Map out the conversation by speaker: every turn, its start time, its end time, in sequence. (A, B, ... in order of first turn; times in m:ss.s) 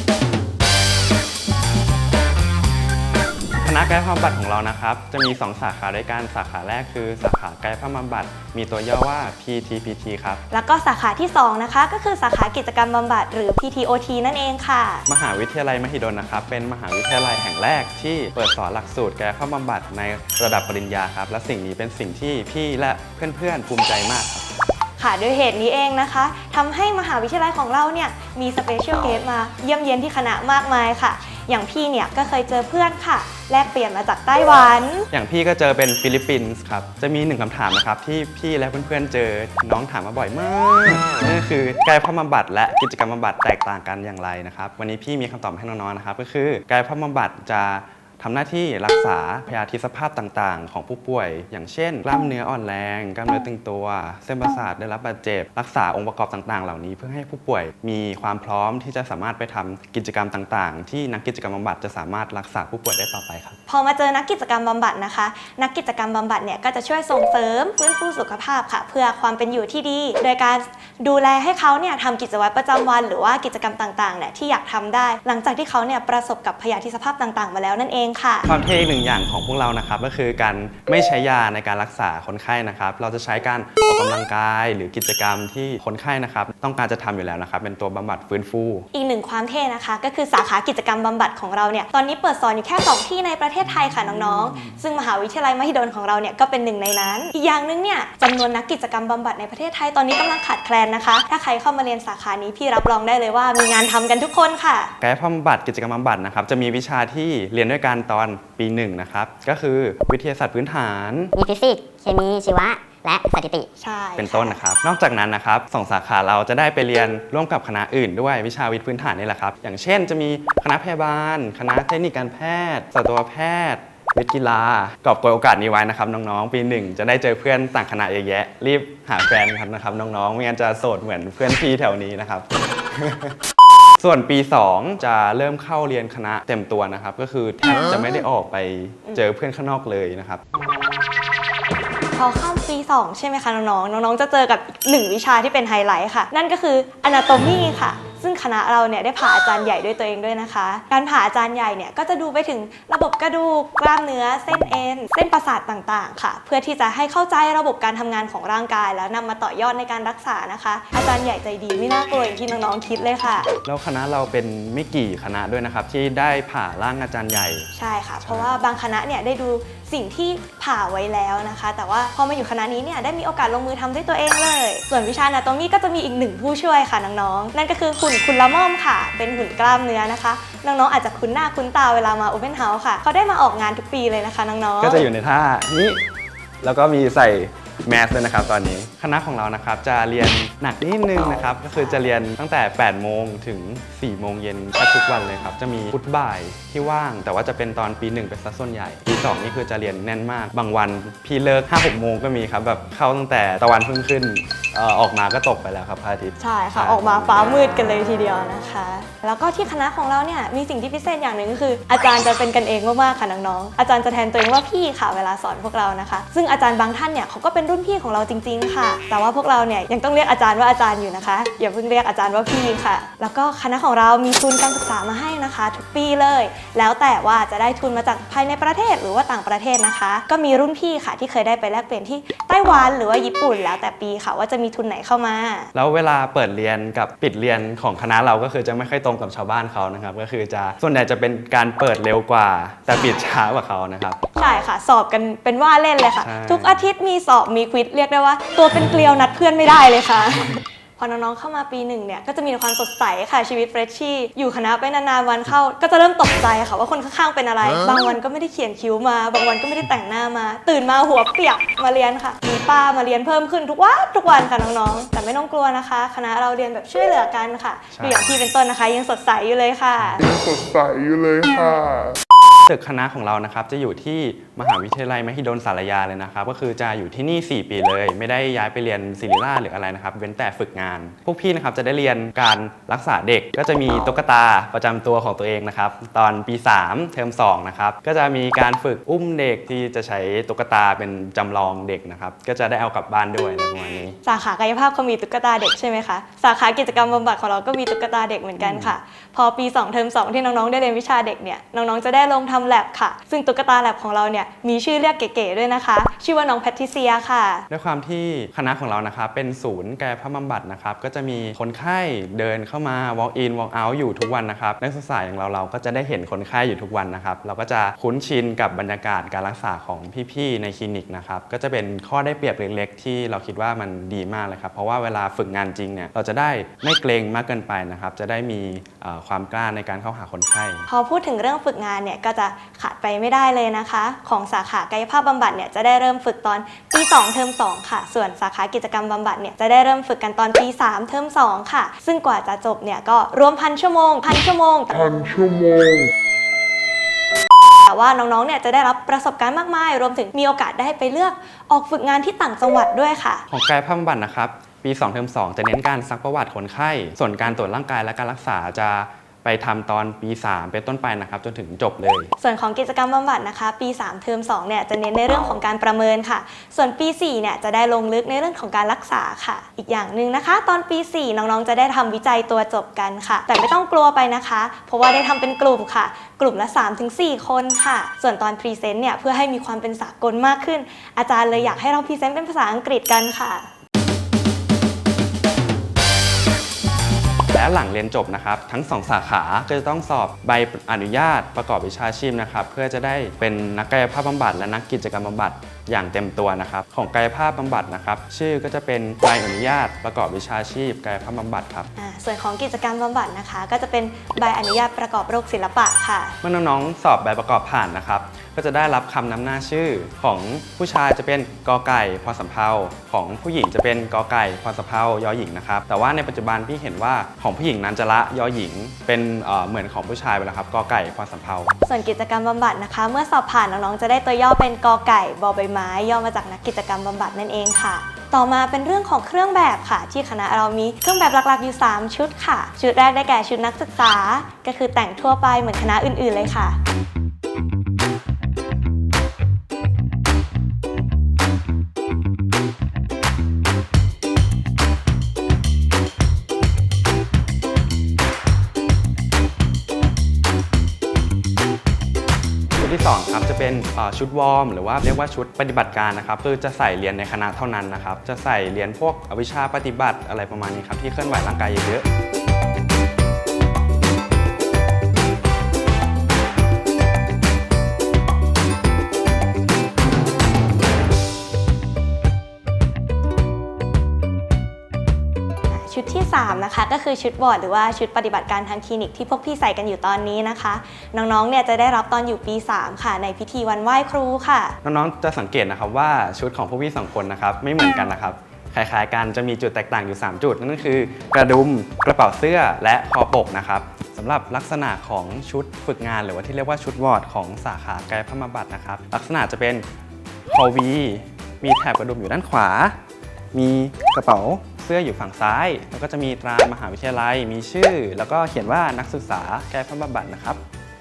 0:03.6-0:10.4 A
0:10.5-0:15.1 B
0:15.1-0:24.5 A
0:25.0-0:35.1 B
0:35.1-1:03.6 A
1:03.7-1:18.5 B
1:18.5-1:28.9 A
1:28.9-1:44.9 B
1:45.0-1:51.3 A
1:51.4-1:53.7 C
1:53.8-1:54.6 B
1:54.2-2:13.4 A
2:14.0-2:20.4 A
2:22.1-2:43.5 B
2:43.6-2:47.7 A
2:47.7-3:05.1 B
2:48.2-2:48.6 A
3:04.8-3:06.0 A
3:06.6-3:27.6 A
3:26.4-3:55.7 B
3:55.7-4:04.2 A
4:04.4-4:30.3 B
4:06.2-4:06.8 A
4:27.9-4:28.4 A
4:30.2-4:32.2 D
4:32.7-4:54.2 A
4:54.3-5:07.7 B
4:58.6-4:58.9 A
5:07.7-5:30.9 A
5:30.9-5:45.1 B
5:44.9-5:46.1 D
5:47.8-5:53.4 B
5:53.5-6:02.3 A
6:02.4-6:23.7 B
6:27.5-6:41.9 A
6:42.0-6:46.4 B
6:46.4-7:01.7 A
7:01.9-7:16.8 B
7:32.8-7:42.0 A
7:55.7-8:04.8 B
8:04.8-8:19.9 A
8:20.5-8:23.0 A
8:23.5-8:30.6 A